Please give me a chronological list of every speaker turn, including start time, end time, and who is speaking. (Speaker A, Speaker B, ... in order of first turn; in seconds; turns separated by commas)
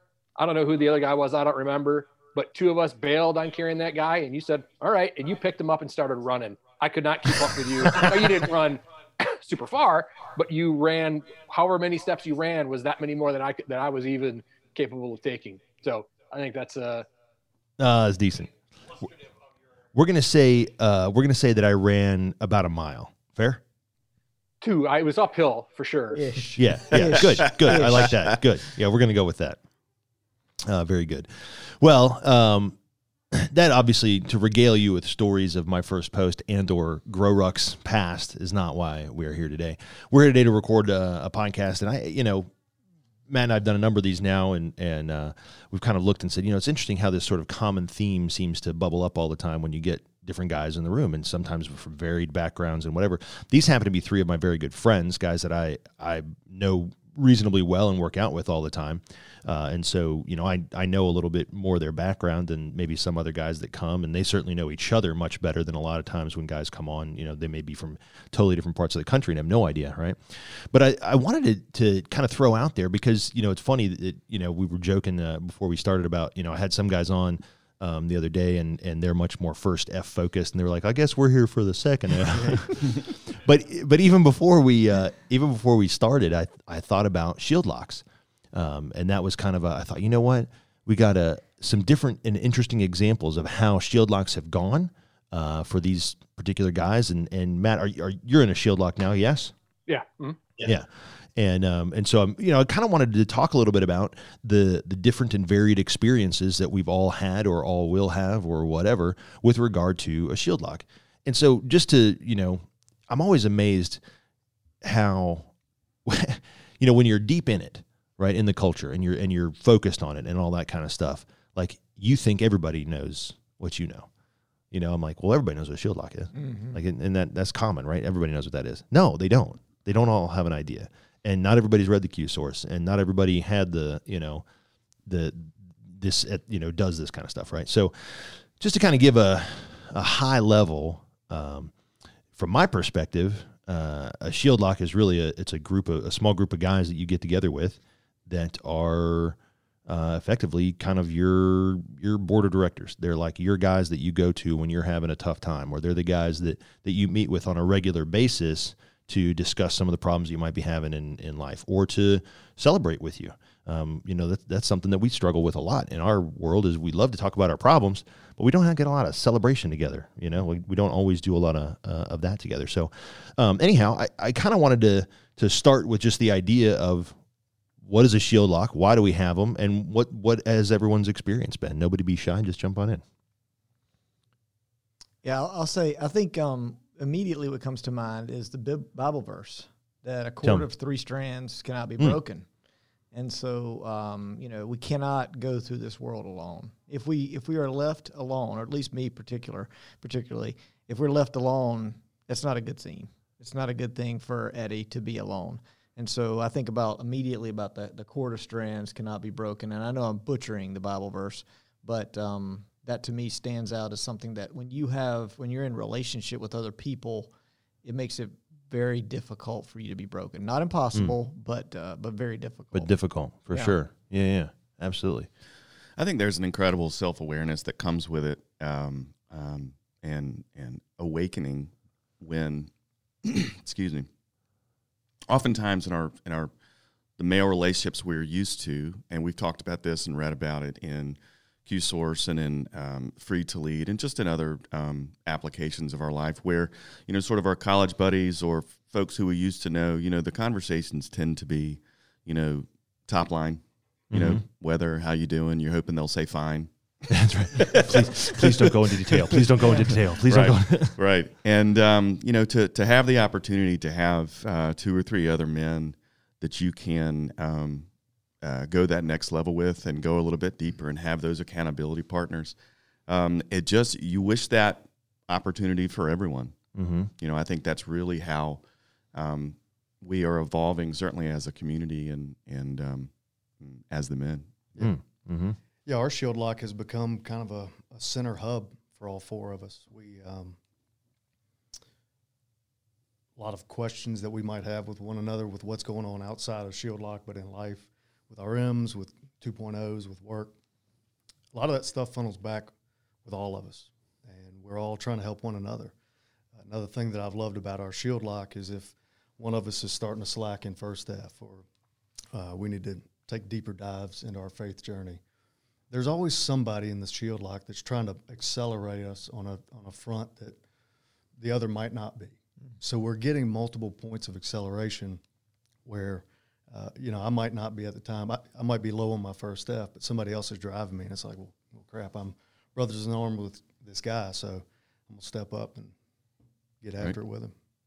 Speaker A: 0.4-17.1, Speaker B: 7.8-8.3, Speaker B: 17.8-19.1, Speaker B: 19.9-23.6, Speaker A: 24.6-26.4, Speaker C: 26.1-28.1, Speaker B: 26.6-29.6, Speaker B: 30.6-32.8, Speaker B: 33.3-42.5, Speaker B: 43.3-99.5, Speaker D: 82.3-82.7, Speaker A: 99.9-100.4, Speaker B: 100.6-114.0, Speaker B: 114.8-115.5, Speaker B: 116.0-124.1, Speaker B: 124.7-134.4, Speaker C: 126.3-126.8, Speaker B: 135.1-141.7, Speaker B: 142.3-177.1, Speaker B: 177.8-183.0, Speaker C: 185.2-192.5, Speaker C: 193.1-217.3, Speaker C: 217.8-222.9, Speaker B: 222.7-225.3, Speaker E: 226.0-232.7, Speaker E: 233.2-234.1, Speaker E: 235.3-236.5, Speaker E: 237.2-256.7, Speaker B: 254.1-254.4, Speaker B: 257.1-260.9, Speaker E: 257.5-267.9, Speaker E: 268.4-272.6, Speaker E: 273.1-276.5, Speaker B: 276.8-277.1, Speaker E: 277.2-278.6, Speaker E: 279.1-284.5, Speaker B: 284.8-285.6, Speaker D: 285.8-290.6, Speaker D: 293.4-300.5, Speaker D: 301.5-302.7, Speaker D: 303.2-305.9, Speaker D: 306.6-311.6, Speaker D: 312.3-315.2, Speaker D: 315.9-320.6, Speaker D: 321.4-325.2, Speaker D: 325.8-335.9, Speaker D: 336.8-337.5